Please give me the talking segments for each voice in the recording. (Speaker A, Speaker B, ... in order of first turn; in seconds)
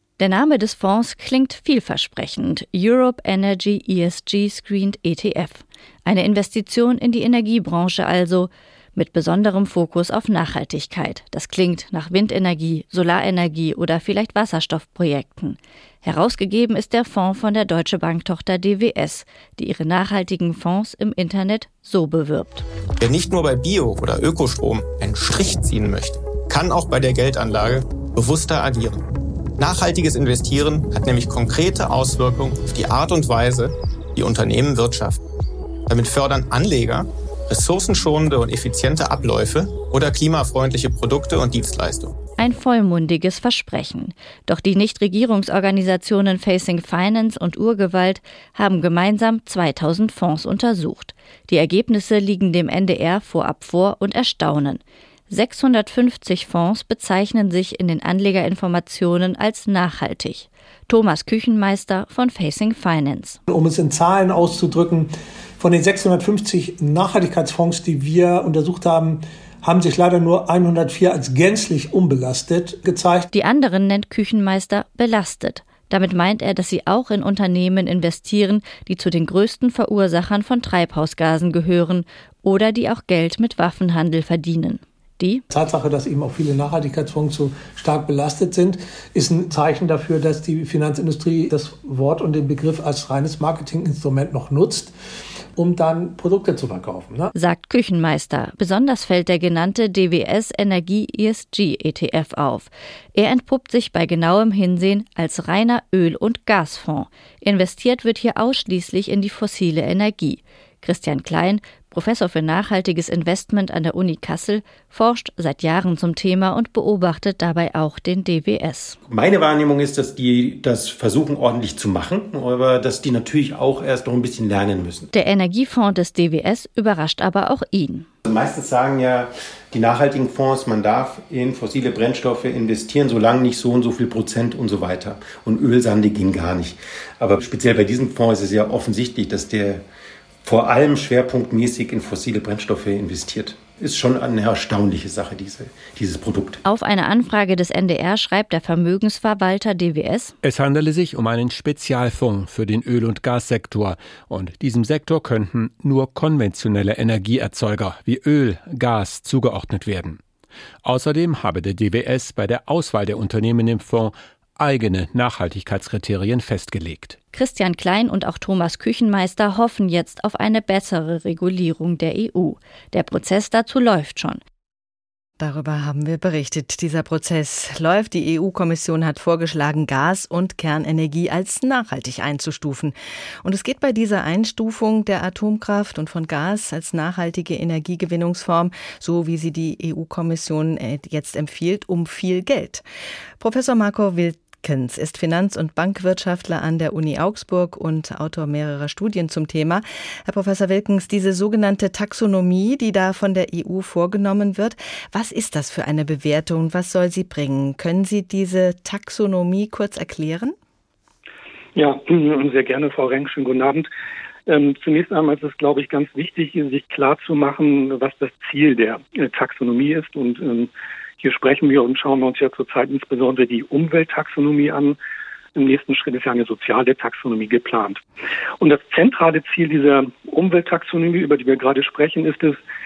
Speaker A: 0.2-22.6, 42.4-63.4, 73.3-85.4, 97.3-119.0, 125.1-128.1, 146.6-150.3, 167.3-174.4
Speaker B: 23.0-29.0, 29.6-35.2, 35.9-42.1
Speaker C: 63.5-73.3, 85.5-94.9, 95.5-97.3
Speaker D: 119.1-125.1, 128.2-139.8, 140.4-146.6
Speaker E: 150.4-160.2, 160.8-167.2
Speaker F: 175.4-192.8, 193.4-210.5
Speaker G: 211.8-213.9, 214.5-220.7, 221.2-225.0, 225.6-228.0, 228.6-232.6